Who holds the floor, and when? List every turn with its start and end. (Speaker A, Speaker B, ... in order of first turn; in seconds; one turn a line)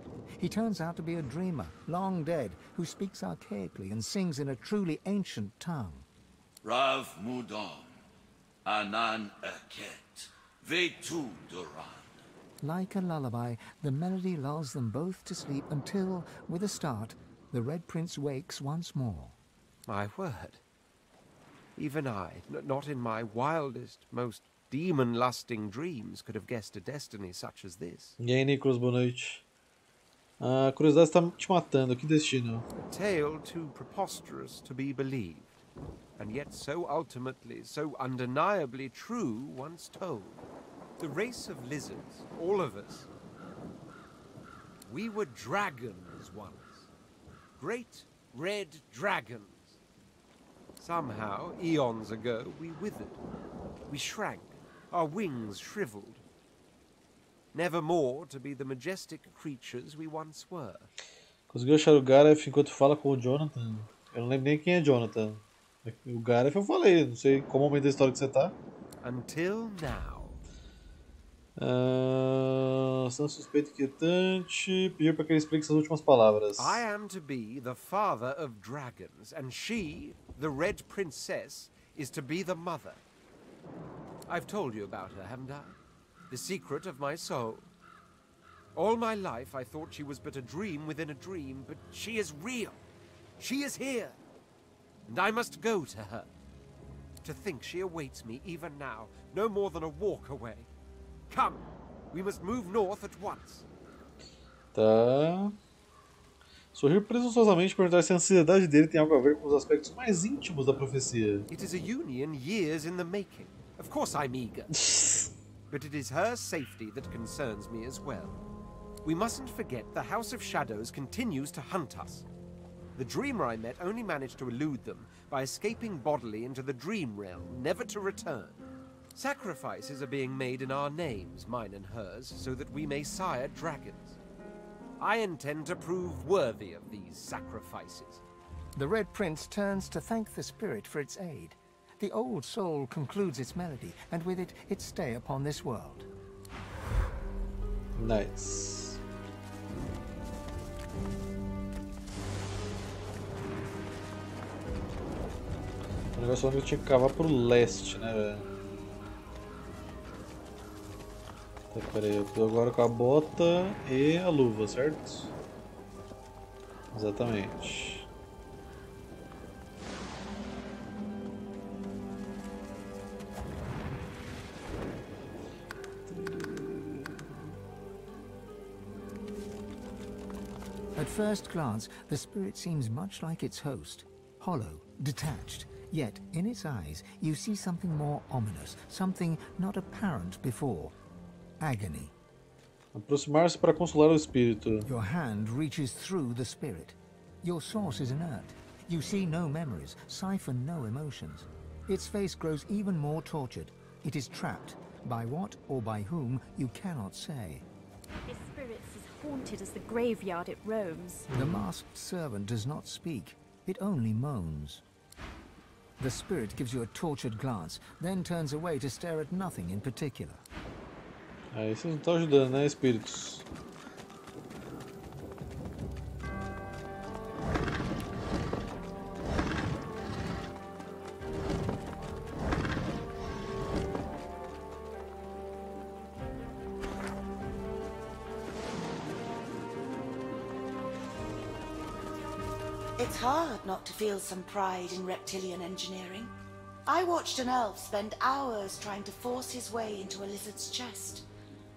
Speaker A: 0.4-6.1
Speaker B: 6.6-8.0
Speaker B: 8.7-12.2
Speaker A: 12.6-19.4
Speaker C: 19.9-20.6
Speaker C: 21.8-28.1
Speaker D: 28.2-29.4
Speaker D: 30.4-32.6
Speaker C: 32.9-35.6
Speaker C: 36.2-40.4
Speaker C: 41.0-43.1
Speaker C: 44.8-46.9
Speaker C: 47.6-49.8
Speaker C: 50.8-53.2
Speaker C: 53.9-56.2
Speaker C: 57.5-60.9
Speaker D: 61.5-68.5
Speaker C: 69.0-70.4
Speaker D: 71.6-76.8
Speaker C: 76.6-83.0
Speaker C: 84.3-85.8
Speaker C: 86.3-87.7
Speaker C: 88.7-92.8
Speaker C: 93.4-94.2
Speaker C: 95.1-96.3
Speaker C: 97.2-100.7
Speaker C: 101.3-103.7
Speaker D: 104.7-105.5
Speaker D: 106.7-111.5
Speaker C: 111.5-114.7
Speaker D: 114.8-115.3
Speaker C: 115.7-118.4
Speaker C: 119.0-122.3
Speaker C: 123.0-134.2
Speaker C: 135.0-138.2
Speaker A: 138.7-146.1
Speaker D: 147.9-149.0
Speaker D: 156.2-158.4
Speaker D: 161.7-165.3
Speaker D: 166.9-168.1
Speaker D: 176.1-177.4
Speaker A: 180.9-190.9
Speaker A: 191.6-192.1
Speaker D: 192.9-194.9
Speaker A: 194.8-207.7
Speaker E: 208.2-211.3
Speaker D: 211.3-211.7
Speaker A: 211.3-214.8
Speaker A: 216.0-220.4
Speaker D: 221.5-223.4
Speaker F: 243.0-246.3
Speaker F: 246.9-251.3